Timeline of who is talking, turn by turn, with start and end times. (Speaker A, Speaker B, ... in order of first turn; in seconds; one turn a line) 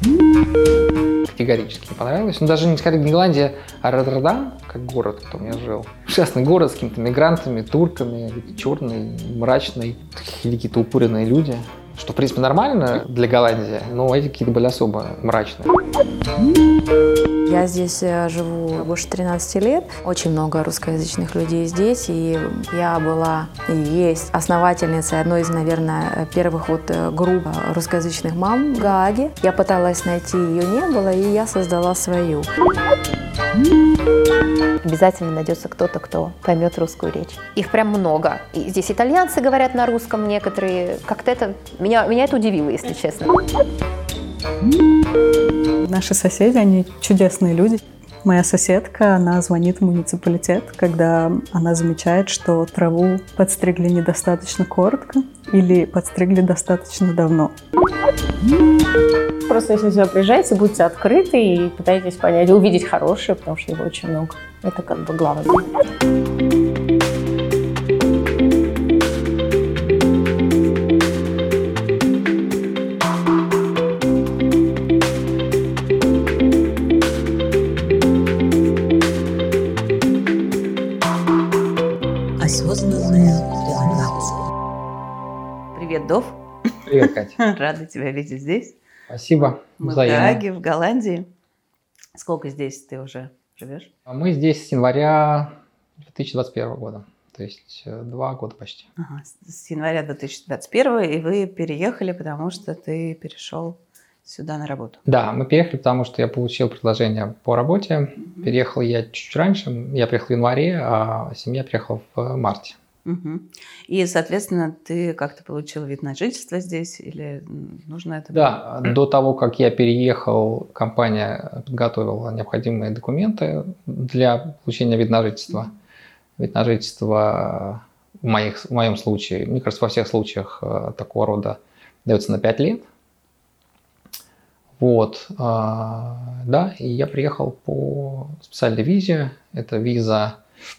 Speaker A: 1.3-15.7
Speaker B: 17.4-32.5
Speaker C: 34.8-43.4
Speaker D: 45.8-57.5
Speaker E: 59.5-65.7
Speaker F: 82.4-84.4
Speaker F: 85.7-86.4
Speaker A: 86.8-87.4
Speaker F: 87.4-88.8
Speaker A: 89.1-90.4
Speaker F: 89.8-91.3
Speaker F: 92.1-93.9
Speaker A: 94.1-98.9
Speaker F: 99.0-105.0
Speaker A: 105.1-112.8
Speaker F: 113.0-118.6
Speaker A: 118.3-125.7
Speaker A: 126.4-132.9
Speaker A: 134.8-140.4